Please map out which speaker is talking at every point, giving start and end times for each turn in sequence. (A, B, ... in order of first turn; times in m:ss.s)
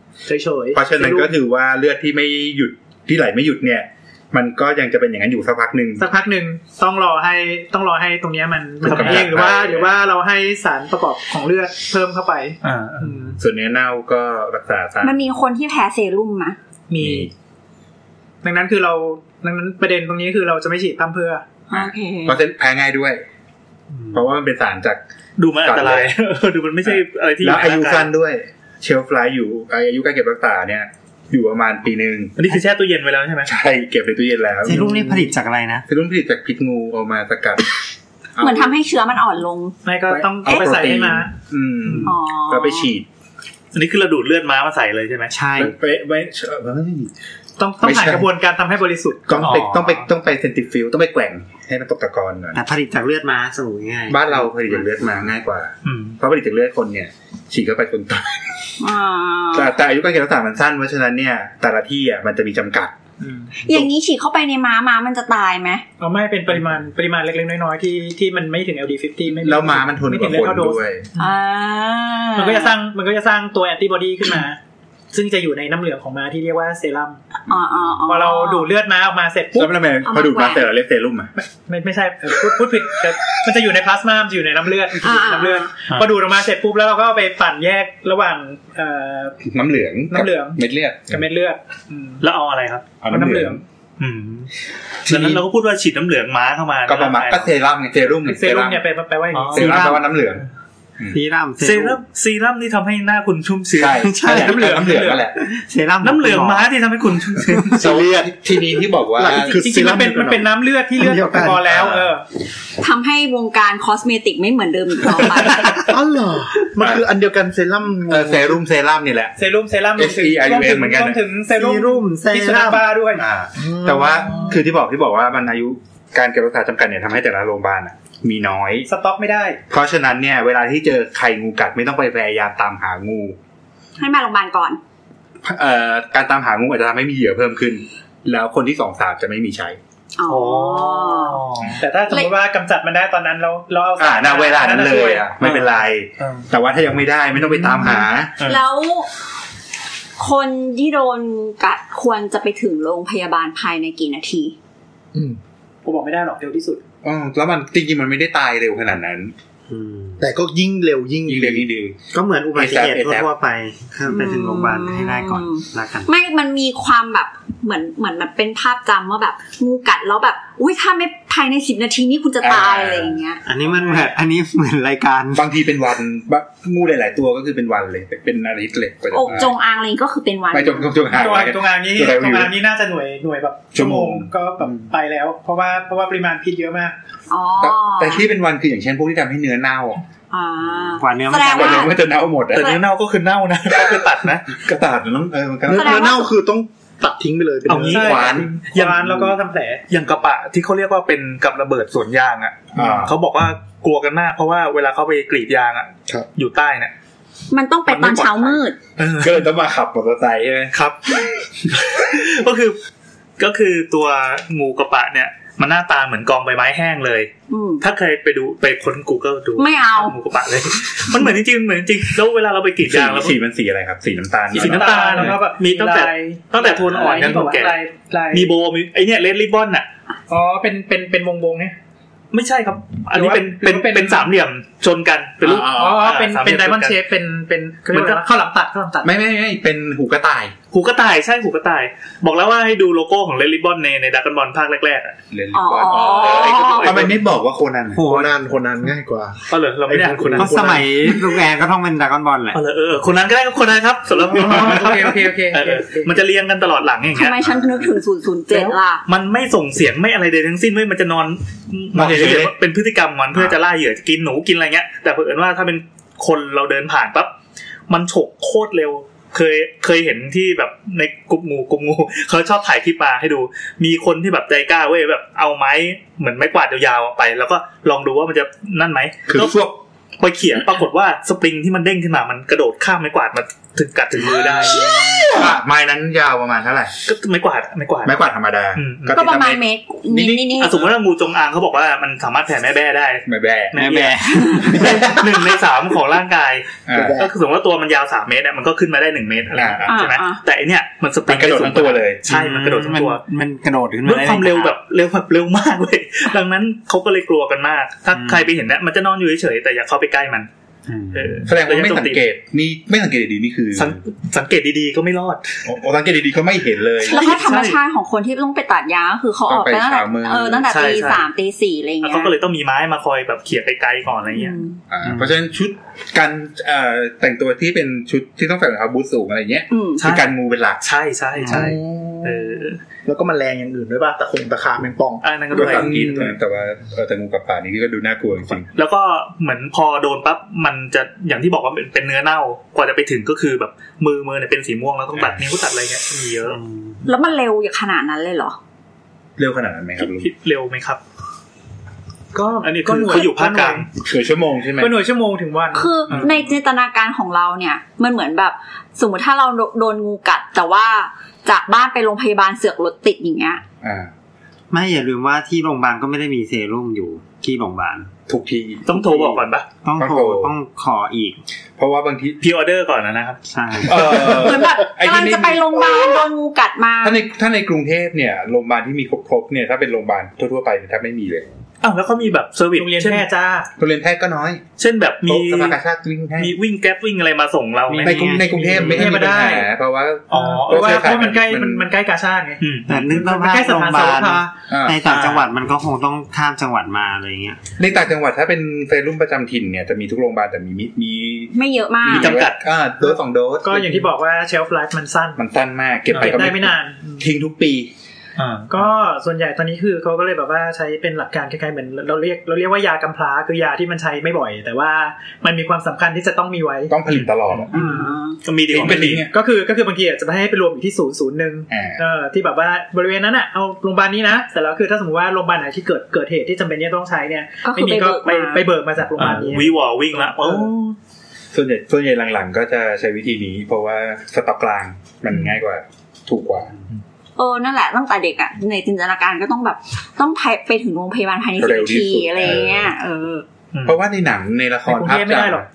0:00.2-0:01.3 A
0:00.7-0:06.0 B
0:06.0-0:13.4 A
0:08.8-0:10.0 B
0:08.8-0:09.3 C
0:12.6-0:13.2 C
0:13.4-0:15.3 B
0:15.0-0:16.6 D
0:16.9-0:17.3 A
0:17.0-0:17.3 B
0:18.4-0:21.4 A
0:21.7-0:22.4 D
0:21.7-0:23.2 B
0:24.0-0:24.2 E
0:24.1-0:25.0 B
0:25.4-0:28.1 C
0:25.6-0:26.1 B
0:26.8-0:32.4 B
0:32.4-0:33.5 C
0:33.4-0:35.3 B
0:34.6-0:35.8 E
0:35.9-0:37.6 B
0:38.4-0:38.8 B
0:38.4-0:39.8 D
0:39.8-0:41.3 A
0:40.1-0:43.1 B
0:41.8-0:42.1 A
0:42.0-0:42.9 D
0:43.7-0:45.3 C
0:45.3-0:45.8 E
0:45.6-0:47.1 B
0:47.6-0:49.4 A
0:47.8-0:48.3 B
0:49.3-0:52.6 B
0:49.4-0:50.1 C
0:52.5-0:55.1 E
0:54.1-0:58.7 B
0:55.8-0:56.2 C
0:58.8-0:59.7 D
0:59.5-1:02.9 B
1:03.2-1:03.5 A
1:03.6-1:05.8 D
1:06.0-1:11.3 A
1:09.4-1:11.0 B
1:11.2-1:12.7 D
1:12.4-1:14.6 A
1:15.1-1:17.2 A
1:17.5-1:18.7 D
1:18.1-1:19.7 A
1:19.5-1:21.3 B
1:20.0-1:20.7 D
1:21.4-1:29.4 A
1:25.0-1:25.7 D
1:29.4-1:31.2 B
1:30.1-1:32.2 A
1:32.2-1:32.9 C
1:33.0-1:33.6 B
1:33.1-1:33.6 A
1:34.0-1:34.5 C
1:35.1-1:35.4 B
1:35.1-1:37.5 C
1:36.8-1:38.8 B
1:38.2-1:39.9 A
1:39.3-1:39.9 C
1:39.5-1:40.4 B
1:39.6-1:40.0 E
1:41.1-1:42.0 E
1:41.6-1:44.0 C
1:43.7-1:45.4 B
1:43.9-1:46.7 E
1:44.3-1:45.2 A
1:46.0-1:47.8 C
1:47.5-1:47.8 E
1:47.8-1:48.4 F
1:47.8-1:49.6 B
1:49.1-1:50.5 F
1:49.4-1:52.2 A
1:51.0-1:51.6 F
1:51.6-1:52.1 B
1:52.8-1:55.9 D
1:55.8-1:58.6 F
1:58.1-1:59.3 B
1:59.4-2:03.2 A
2:00.0-2:01.2 B
2:01.5-2:02.9 E
2:03.2-2:08.9 B
2:03.6-2:04.6 F
2:08.9-2:09.6 A
2:09.7-2:13.4 B
2:14.0-2:14.8 D
2:15.4-2:19.8 B
2:20.2-2:21.4 D
2:20.2-2:21.8 C
2:21.8-2:25.3 A
2:24.0-2:28.4 B
2:25.4-2:26.4 C
2:27.6-2:28.6 C
2:28.4-2:29.1 D
2:30.2-2:34.5 D
2:35.1-2:35.4 F
2:35.8-2:36.8 A
2:37.0-2:39.3 B
2:39.7-2:40.2 E
2:40.2-2:41.7 F
2:41.2-2:42.0 B
2:42.1-2:46.1 E
2:42.5-2:43.3 B
2:44.0-2:53.4 D
2:52.4-2:53.2 B
2:53.4-2:55.5 E
2:53.6-2:54.1 A
2:55.3-2:59.6 B
2:59.1-3:01.0 D
3:00.5-3:02.5 B
3:01.1-3:07.0 A
3:03.7-3:04.3 B
3:07.3-3:08.3 D
3:07.6-3:10.0 B
3:10.3-3:12.8 D
3:11.0-3:11.9 E
3:11.4-3:12.7 B
3:12.5-3:14.6 C
3:14.5-3:16.1 B
3:15.6-3:18.4 F
3:15.7-3:16.3 D
3:17.7-3:19.4 C
3:17.8-3:19.8 A
3:17.9-3:18.5 B
3:19.9-3:26.9 C
3:22.7-3:23.1 B
3:27.5-3:28.8 D
3:27.9-3:28.5 B
3:27.9-3:29.4 C
3:29.0-3:30.7 B
3:30.7-3:32.8 C
3:33.4-3:43.4 C
3:37.5-3:37.8 D
3:39.6-3:40.1 D
3:42.8-3:45.4 B
3:44.5-3:47.8 C
3:44.5-3:48.5 A
3:48.3-3:49.9 C
3:50.3-3:51.7 A
3:52.3-3:57.0 C
3:53.1-3:54.3 A
3:55.4-3:56.0 B
3:55.6-3:59.1 A
3:57.9-3:58.2 C
3:59.0-4:00.5 B
4:00.7-4:05.2 C
4:05.3-4:08.0 B
4:05.5-4:07.1 D
4:05.9-4:07.2 C
4:07.9-4:08.3 E
4:08.0-4:11.0 F
4:09.5-4:10.7 C
4:10.4-4:12.6 E
4:12.5-4:17.4 C
4:14.3-4:16.2 A
4:17.1-4:19.0 D
4:18.5-4:27.3 C
4:21.9-4:22.5 B
4:27.9-4:39.6 C
4:39.3-4:39.7 B
4:40.2-4:44.8 C
4:44.2-4:45.5 E
4:45.3-4:46.9 B
4:47.0-4:48.2 C
4:48.0-4:50.4 B
4:48.7-4:49.2 C
4:49.1-4:50.9 D
4:50.5-5:03.2 C
4:53.2-4:53.8 B
4:53.8-4:55.2 E
4:56.9-4:57.2 B
4:56.9-4:57.3 F
4:59.5-5:00.0 B
4:59.9-5:00.4 D
5:01.3-5:02.2 B
5:02.2-5:04.7 E
5:04.0-5:10.5 C
5:08.1-5:08.5 E
5:10.9-5:11.5 E
5:11.1-5:12.2 C
5:11.4-5:14.0 B
5:13.8-5:15.6 C
5:15.6-5:17.4 B
5:17.0-5:22.3 D
5:17.0-5:17.8 C
5:19.5-5:20.7 B
5:20.7-5:21.3 C
5:22.0-5:24.6 C
5:24.3-5:24.8 D
5:24.9-5:30.8 B
5:25.0-5:25.3 E
5:29.7-5:30.2 D
5:30.0-5:32.8 C
5:31.4-5:31.8 E
5:31.4-5:36.3 F
5:35.2-5:36.2 C
5:35.5-5:38.7 B
5:38.7-5:46.6 C
5:45.1-5:45.4 B
5:46.5-5:47.0 E
5:47.0-5:48.6 D
5:49.4-5:50.3 B
5:50.0-5:51.0 C
5:52.3-5:53.9 A
5:52.6-5:53.9 C
5:54.0-5:54.9 B
5:54.8-5:56.0 A
5:55.7-6:03.6 D
5:56.1-5:56.4 C
6:03.8-6:04.1 B
6:04.7-6:08.1 E
6:08.3-6:09.4 B
6:08.8-6:09.6 C
6:09.8-6:11.4 E
6:10.0-6:10.5 B
6:11.8-6:12.4 B
6:12.4-6:13.4 C
6:13.5-6:14.4 E
6:13.8-6:16.2 B
6:14.2-6:17.2 D
6:17.0-6:21.5 B
6:21.8-6:23.2 C
6:22.8-6:23.7 A
6:23.8-6:24.6 B
6:24.8-6:25.8 C
6:25.2-6:26.5 B
6:26.4-6:28.4 C
6:27.9-6:29.2 E
6:28.0-6:31.9 B
6:28.7-6:29.7 A
6:30.3-6:31.2 C
6:30.3-6:34.5 A
6:32.6-6:33.3 C
6:32.9-6:37.6 E
6:34.7-6:35.0 B
6:35.0-6:35.5 C
6:37.8-6:44.1 B
6:41.5-6:42.4 D
6:42.0-6:42.6 C
6:43.6-6:45.4 A
6:45.4-6:47.9 B
6:46.1-6:47.3 A
6:48.4-6:48.8 C
6:48.7-6:57.0 A
6:56.9-6:57.8 B
6:57.1-6:57.9 C
6:57.7-6:58.1 A
6:57.7-6:58.4 D
6:58.4-6:59.2 C
6:58.7-6:59.3 B
6:59.3-7:10.6 A
7:01.7-7:02.0 B
7:07.6-7:08.7 D
7:09.2-7:10.9 C
7:10.4-7:10.7 B
7:11.5-7:16.7 B
7:17.4-7:23.4 D
7:21.6-7:22.9 B
7:23.7-7:24.0 C
7:23.8-7:25.6 B
7:24.8-7:25.6 A